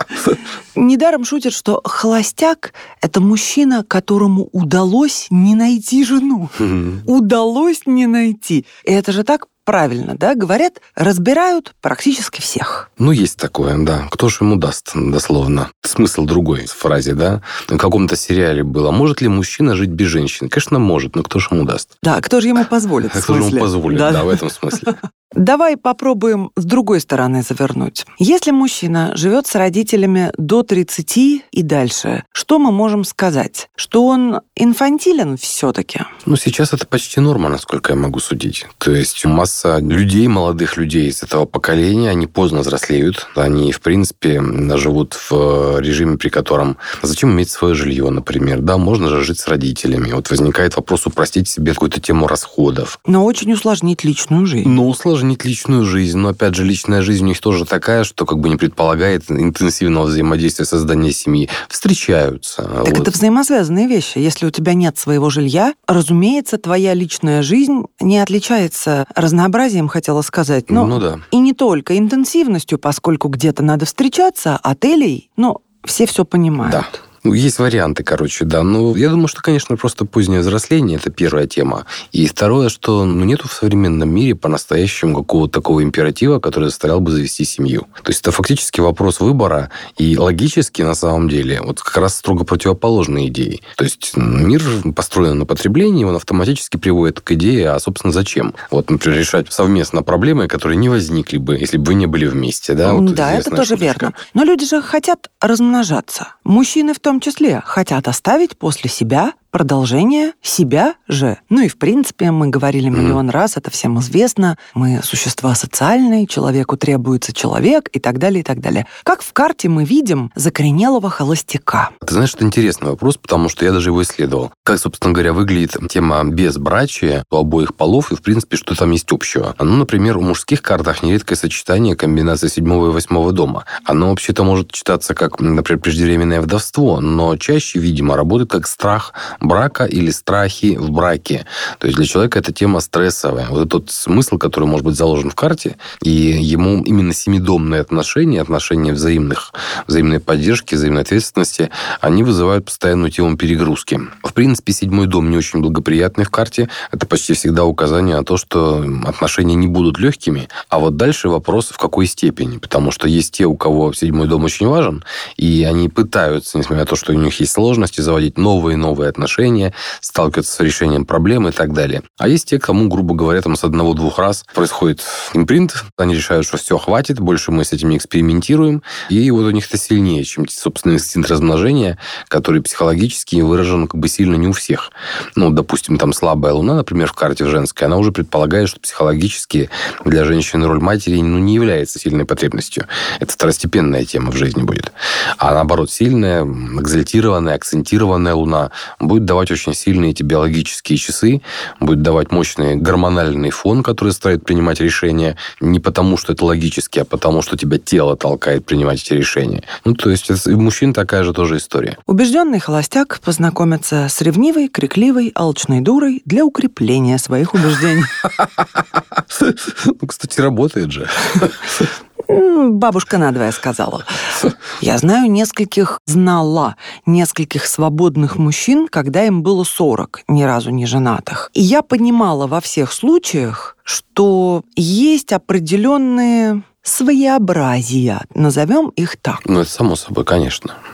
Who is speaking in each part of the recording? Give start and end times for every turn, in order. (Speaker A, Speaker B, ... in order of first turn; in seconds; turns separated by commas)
Speaker A: 0.7-12.9, Speaker B: 13.0-21.9, Speaker A: 22.0-36.1, Speaker B: 23.1-24.9, Speaker B: 36.2-53.0, Speaker A: 53.1-54.7, Speaker B: 54.6-63.1, Speaker A: 62.8-77.0, Speaker B: 70.7-71.2, Speaker B: 76.6-104.2, Speaker A: 102.8-121.9, Speaker B: 112.9-113.2, Speaker B: 122.0-212.0, Speaker A: 212.1-218.2, Speaker B: 219.3-221.8, Speaker A: 222.3-224.2, Speaker A: 224.8-239.4, Speaker B: 239.4-240.8